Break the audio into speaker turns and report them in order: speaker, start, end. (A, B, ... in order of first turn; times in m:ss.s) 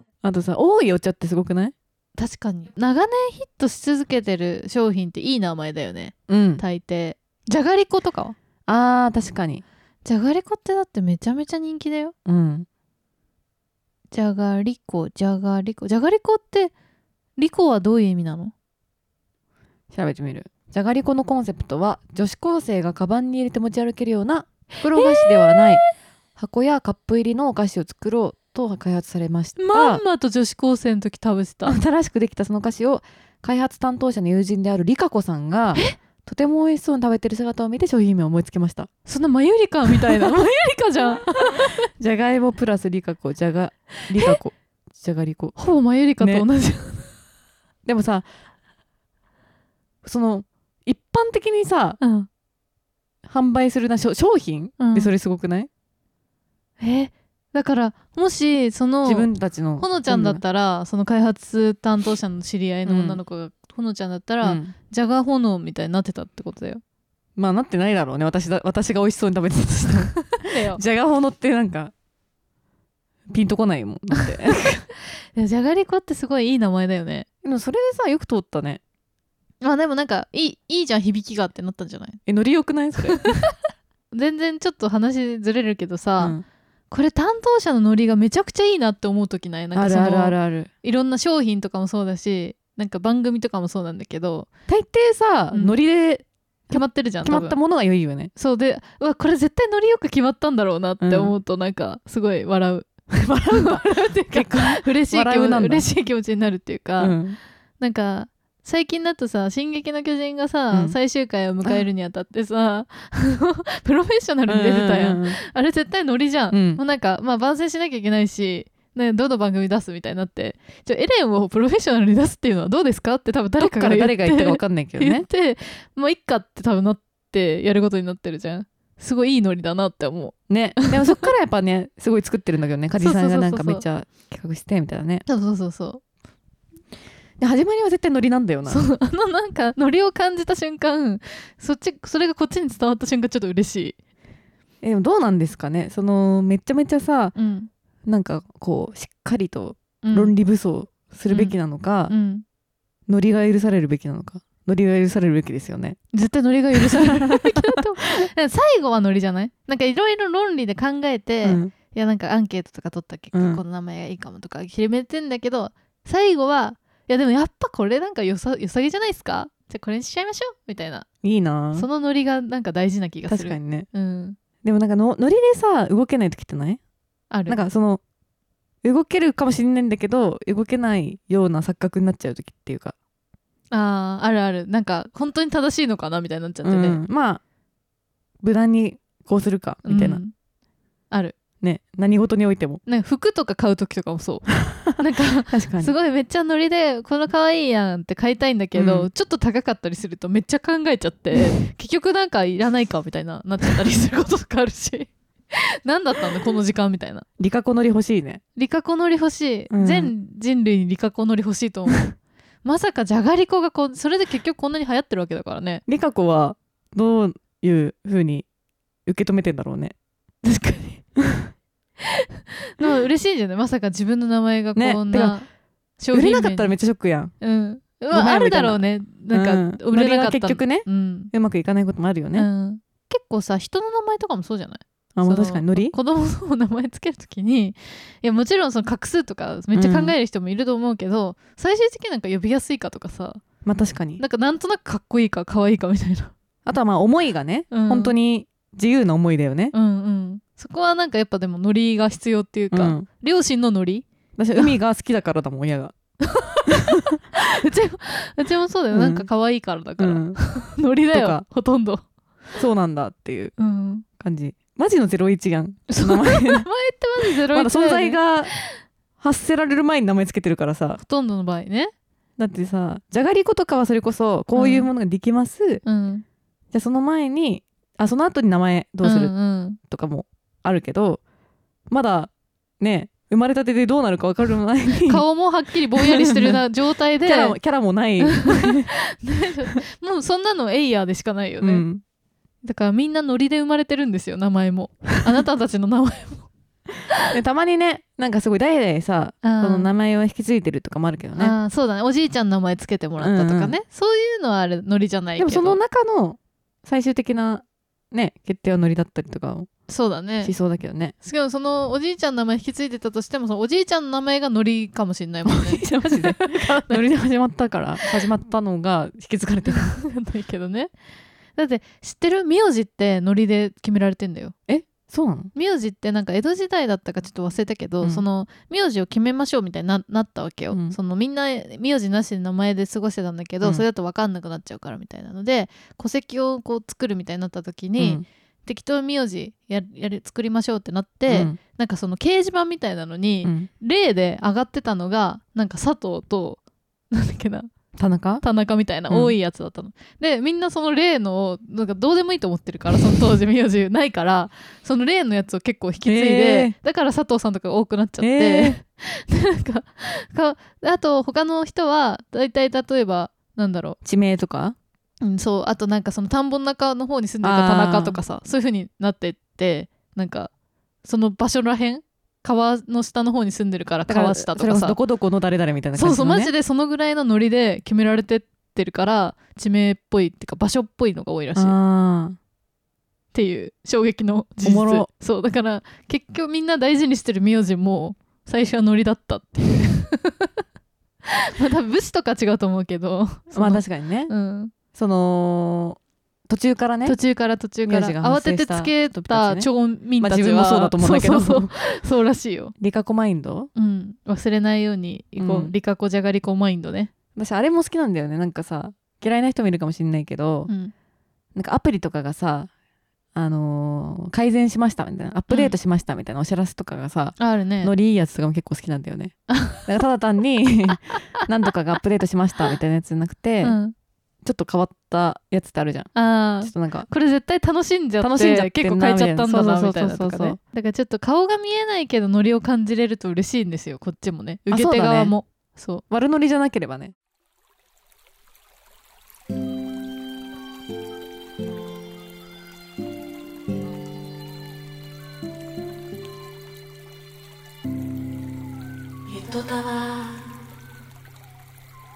0:00.2-0:01.7 A
0:02.2-0:08.4 B
0:06.3-0:06.6 A
0:08.7-0:09.6 A
0:10.0-0:12.1 B
0:12.3-0:12.7 A
0:14.1-0:16.7 B
0:17.4-0:18.5 B
0:19.9-0:25.8 A
0:24.9-0:25.9 B
0:26.4-0:30.0 A
0:29.6-0:31.8 B
0:31.6-0:38.9 A
0:39.1-0:41.8 B
0:42.0-0:45.6 A
0:45.6-0:47.1 B
0:46.2-0:46.4 A
0:47.8-0:48.3 A
0:50.0-0:52.0 A
0:52.0-0:52.3 B
0:53.2-0:55.7 A
0:54.8-0:55.1 B
0:56.8-1:06.8 B
0:59.0-1:00.4 A
1:02.8-1:03.2 A
1:04.4-1:04.7 A
1:07.4-1:11.9 A
1:10.3-1:10.8 B
1:13.3-1:14.9 A
1:15.4-1:17.3 B
1:17.4-1:18.8 A
1:19.6-1:22.2 B
1:22.3-1:23.3 A
1:23.1-1:23.4 B
1:24.1-1:26.4 B
1:26.2-1:26.4 A
1:26.9-1:34.5 B
1:29.8-1:30.7 A
1:34.7-1:38.3 A
1:36.7-1:37.6 B
1:38.4-1:47.2 B
1:41.0-1:41.3 A
1:43.4-1:45.9 A
1:47.0-1:47.4 A
1:47.8-2:11.3 B
1:54.5-1:55.4 A
1:56.5-1:56.8 A
2:03.6-2:05.3 A
2:10.5-2:15.2 A
2:13.0-2:13.8 B
2:15.3-2:16.0 B
2:17.4-2:18.8 A
2:18.7-2:24.0 B
2:24.8-2:27.4 A
2:27.4-2:27.7 B
2:28.1-2:32.1 A
2:30.0-2:30.3 B
2:31.3-2:31.6 B
2:32.1-2:32.4 B
2:33.1-2:36.0 A
2:36.1-2:51.1 B
2:36.8-2:38.3 A
2:41.4-2:41.7 A
2:43.3-2:43.6 A
2:51.2-2:51.9 A
2:51.8-2:54.4 B
2:53.3-2:53.9 A
2:54.6-2:56.8 A
2:57.3-2:57.6 B
2:57.5-2:58.0 A
2:58.8-3:03.0 A
3:03.7-3:07.0 B
3:06.6-3:07.4 A
3:08.4-3:10.2 A
3:09.8-3:10.3 B
3:11.1-3:11.4 B
3:11.6-3:12.8 A
3:12.9-3:27.2 B
3:14.7-3:15.9 A
3:18.8-3:19.1 A
3:27.4-3:28.4 A
3:28.6-3:35.8 B
3:29.7-3:30.1 A
3:35.9-3:38.5 A
3:39.1-3:40.0 A
3:40.4-3:41.0 B
3:41.2-3:41.5 A
3:42.0-3:42.3 B
3:42.8-3:45.5 B
3:44.8-3:45.4 A
3:46.0-3:46.7 B
3:46.1-3:47.3 A
3:47.4-3:51.3 B
3:48.1-3:52.5 A
3:52.3-4:03.4 B
3:55.2-3:56.0 A
3:59.7-4:00.2 A
4:03.6-4:04.2 A
4:04.2-4:06.3 B
4:06.6-4:09.7 A
4:07.7-4:08.2 B
4:09.7-4:14.1 B
4:12.7-4:13.1 A
4:14.4-4:15.9 A
4:16.2-4:22.0 B
4:16.7-4:17.1 A
4:18.9-4:19.3 A
4:20.0-4:20.4 A
4:21.1-4:21.4 A
4:22.6-4:23.5 A
4:23.6-4:24.1 B
4:24.2-4:26.7 A
4:25.9-4:28.6 B
4:27.2-4:28.5 A
4:29.2-4:31.0 A
4:31.0-4:31.9 B
4:32.4-4:35.8 A
4:34.5-4:34.9 B
4:35.8-4:36.2 B
4:36.7-4:41.2 A
4:39.0-4:39.8 B
4:41.9-4:45.2 A
4:45.0-4:47.6 B
4:46.0-4:46.6 A
4:47.2-4:48.9 A
4:48.2-4:51.9 B
4:51.6-4:52.0 A
4:52.6-4:56.5 B
4:57.3-5:01.6 A
4:59.4-4:59.9 B
5:01.4-5:05.8 B
5:03.2-5:03.7 A
5:05.4-5:09.7 A
5:09.9-5:10.5 B
5:10.4-5:11.2 A
5:11.2-5:17.0 B
5:15.5-5:20.0 A
5:19.7-5:20.9 B
5:21.6-5:24.6 B
5:24.7-5:25.5 A
5:25.6-5:47.7 B
5:30.7-5:31.0 A
5:38.0-5:38.2 A
5:41.3-5:41.6 A
5:48.0-5:48.4 A
5:48.4-6:04.0 B
5:49.1-5:49.4 A
5:56.1-5:56.8 A
5:58.2-5:58.8 A
6:04.0-6:04.8 A
6:05.2-6:10.5 B
6:07.4-6:08.2 A
6:11.0-6:15.0 B
6:14.1-6:16.5 A
6:16.0-6:21.8 B
6:21.6-6:22.4 A
6:23.3-6:30.5 B
6:24.6-6:25.1 A
6:31.3-6:34.7 B
6:33.5-6:34.3 A
6:34.9-6:37.2 A
6:37.1-6:42.7 B
6:37.9-6:39.7 A
6:40.2-6:41.7 A
6:42.8-6:43.7 A
6:43.8-6:47.1 B
6:45.4-6:45.7 A
6:47.4-6:50.7 A
6:50.7-6:50.9 B
6:51.6-6:52.7 A
6:53.3-6:59.3 A
6:57.4-6:57.9 B
6:59.5-6:59.8 B
6:59.9-7:03.8 A
7:03.6-7:04.0 B
7:04.4-7:06.1 A
7:06.2-7:16.0 B
7:06.6-7:07.1 A
7:08.2-7:10.6 A
7:14.7-7:15.3 A
7:16.1-7:17.1 A
7:29.3-7:30.4 A